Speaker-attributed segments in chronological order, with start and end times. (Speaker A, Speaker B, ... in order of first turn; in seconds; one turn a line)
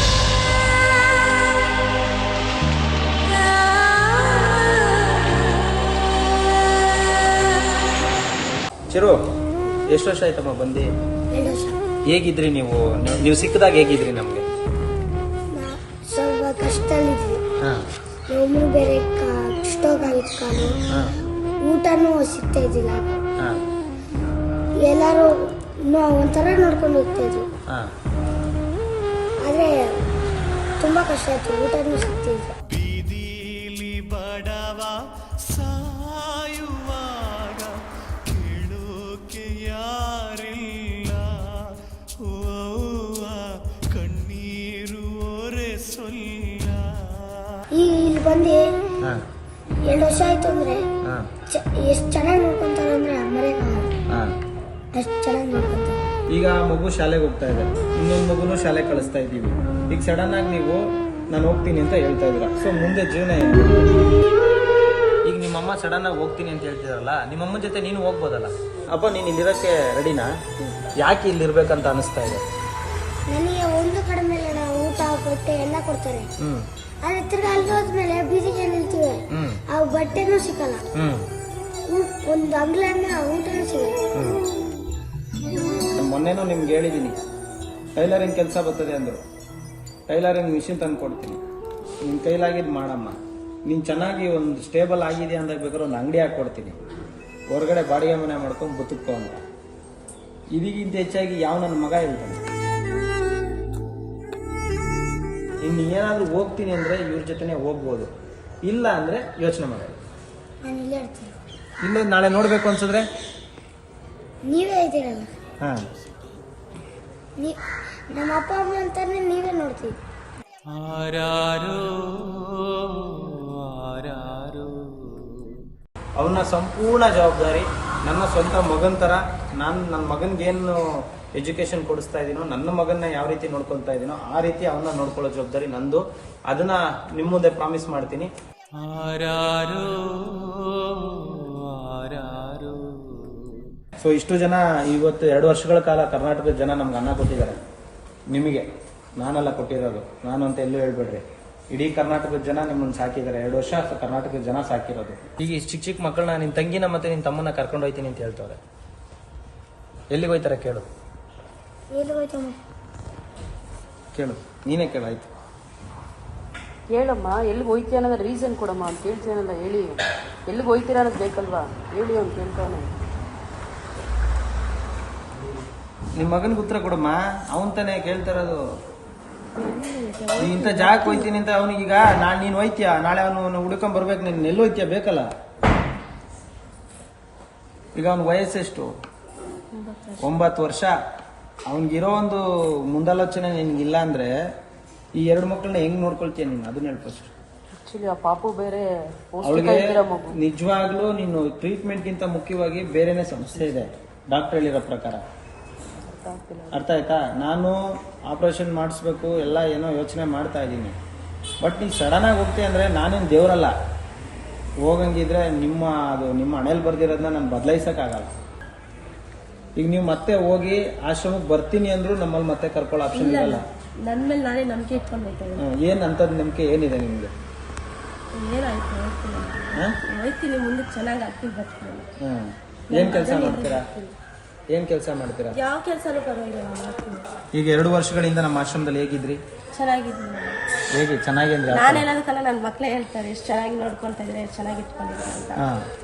Speaker A: 8.9-9.2
Speaker A: 9.9-10.9
Speaker B: 11.3-11.8
Speaker A: 12.1-14.4
Speaker B: 15.5-17.4
Speaker B: 18.3-20.8
Speaker B: 21.6-23.1
Speaker B: 24.8-27.5
Speaker B: 29.4-30.0
Speaker B: 30.8-32.5
Speaker C: 32.7-47.6
Speaker B: 47.7-48.6
Speaker B: 49.9-50.9
Speaker B: 51.5-53.9
Speaker B: 54.9-56.0
Speaker A: 56.3-63.9
Speaker A: 65.2-70.3
Speaker A: 71.0-72.4
Speaker B: 73.3-76.3
Speaker A: 76.4-76.7
Speaker B: 77.0-80.9
Speaker A: 79.3-79.6
Speaker A: 80.9-81.3
Speaker B: 81.9-84.0
Speaker A: 84.1-84.4
Speaker A: 86.0-87.2
Speaker A: 87.9-89.2
Speaker A: 90.1-91.4
Speaker A: 92.0-96.8
Speaker A: 97.5-99.3
Speaker A: 100.5-102.4
Speaker A: 105.6-108.1
Speaker A: 108.6-110.0
Speaker B: 110.6-111.3
Speaker A: 111.8-113.1
Speaker B: 114.4-115.3
Speaker B: 118.1-120.0
Speaker C: 120.7-125.2
Speaker A: 126.2-138.3
Speaker C: 138.7-143.6
Speaker A: 144.0-147.6
Speaker A: 148.3-158.6
Speaker A: 160.1-160.8
Speaker B: 161.9-162.6
Speaker A: 164.1-165.3
Speaker D: 166.9-172.9
Speaker A: 176.2-178.6
Speaker E: 179.6-181.3
Speaker A: 180.4-185.3
Speaker A: 187.9-188.9
Speaker E: 189.7-190.2
Speaker A: 190.2-190.9
Speaker A: 191.7-194.3
Speaker A: 195.2-197.3
Speaker D: 197.7-200.3
Speaker A: 199.4-205.2
Speaker D: 206.1-206.8
Speaker A: 206.7-210.9
Speaker A: 211.6-213.7
Speaker A: 214.8-218.3
Speaker A: 219.8-223.6
Speaker E: 223.1-225.6
Speaker A: 225.6-227.3
Speaker E: 228.3-232.1
Speaker A: 232.2-233.9
Speaker E: 232.9-234.1
Speaker A: 234.7-235.6
Speaker E: 235.5-237.2
Speaker A: 237.5-239.4
Speaker E: 239.7-240.6
Speaker A: 240.9-242.1
Speaker E: 241.7-245.6
Speaker A: 245.6-245.9